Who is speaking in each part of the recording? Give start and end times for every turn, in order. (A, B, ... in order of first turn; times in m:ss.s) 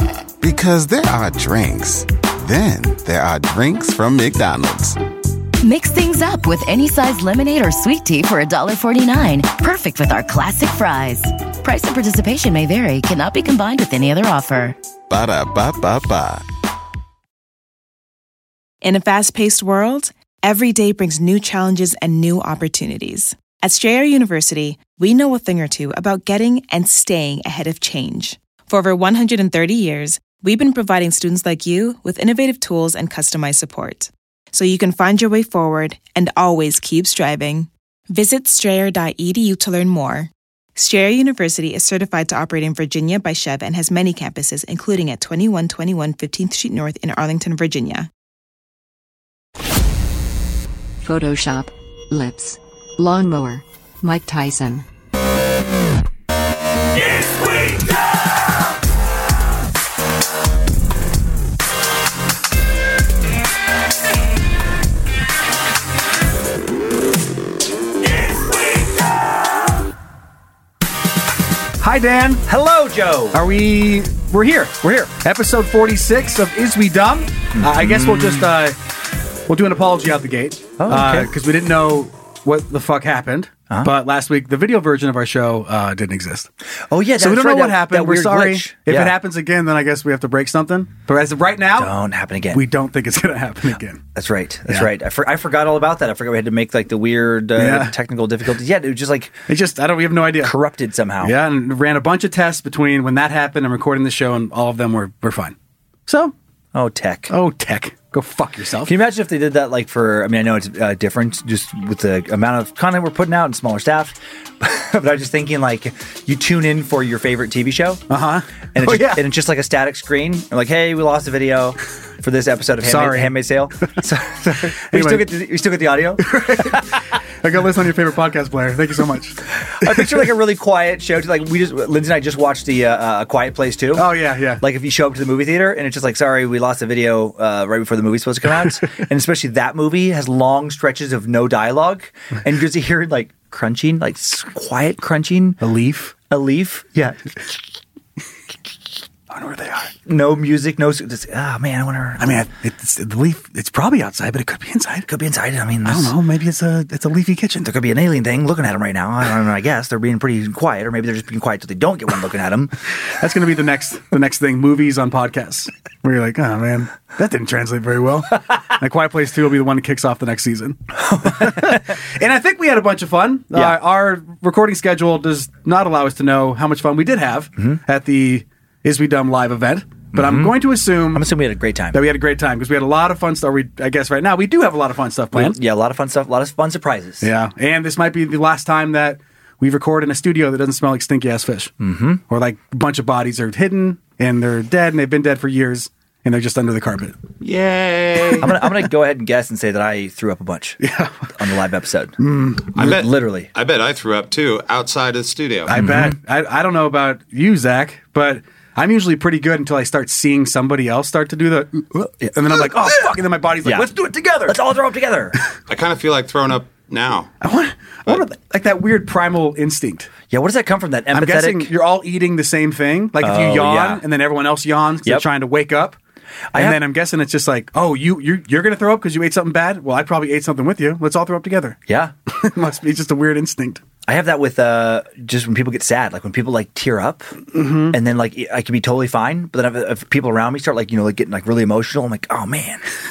0:00.4-0:05.0 A
0:05.6-0:14.8 B
0:15.1-0:16.4 A
0:18.8-0:48.1 C
0:51.0-0:54.8 D
1:11.8-1:12.4 E
1:12.5-1:13.4 F
1:13.3-1:18.8 E
1:14.8-1:15.1 F
1:17.5-1:18.5 F
1:19.5-1:26.5 E
1:20.8-1:21.3 F
1:26.9-1:29.1 F
1:27.2-1:31.9 E
1:31.8-1:32.6 F
1:32.5-1:34.0 E
1:34.2-1:39.4 F
1:37.6-1:37.9 E
1:39.5-1:40.6 E
1:40.4-1:41.4 F
1:41.2-1:45.6 E
1:46.1-1:46.3 E
1:46.7-1:47.3 F
1:47.3-1:48.9 E
1:48.8-1:58.0 F
1:58.1-1:59.2 E
1:58.7-2:07.0 F
2:02.8-2:03.4 E
2:04.9-2:05.3 E
2:06.2-2:10.3 E
2:09.6-2:25.6 F
2:13.9-2:14.6 E
2:25.6-2:26.2 E
2:26.3-2:27.4 F
2:29.3-2:29.9 E
2:30.1-2:32.5 F
2:32.2-2:35.1 E
2:35.1-2:36.1 F
2:35.8-2:37.7 E
2:37.6-2:42.7 F
2:43.2-3:01.3 E
2:51.0-2:52.0 F
3:00.1-3:02.0 F
3:01.9-3:05.6 E
3:05.3-3:07.3 F
3:07.2-3:11.7 E
3:11.8-3:12.2 F
3:12.3-3:18.6 E
3:18.4-3:20.8 F
3:20.8-3:21.4 E
3:21.4-3:22.2 F
3:22.2-3:22.7 E
3:22.8-3:23.5 F
3:22.8-3:25.7 G
3:25.7-3:34.6 E
3:25.7-3:26.2 F
3:32.2-3:33.1 F
3:33.6-3:33.9 F
3:34.4-3:35.4 F
3:35.7-3:37.3 G
3:37.4-3:40.1 E
3:40.3-3:41.7 F
3:41.1-3:46.0 E
3:43.2-3:44.0 F
3:46.5-3:46.8 F
3:46.5-3:53.8 E
3:51.9-3:52.1 F
3:54.1-3:57.4 F
3:57.5-3:58.0 E
3:57.9-4:02.8 F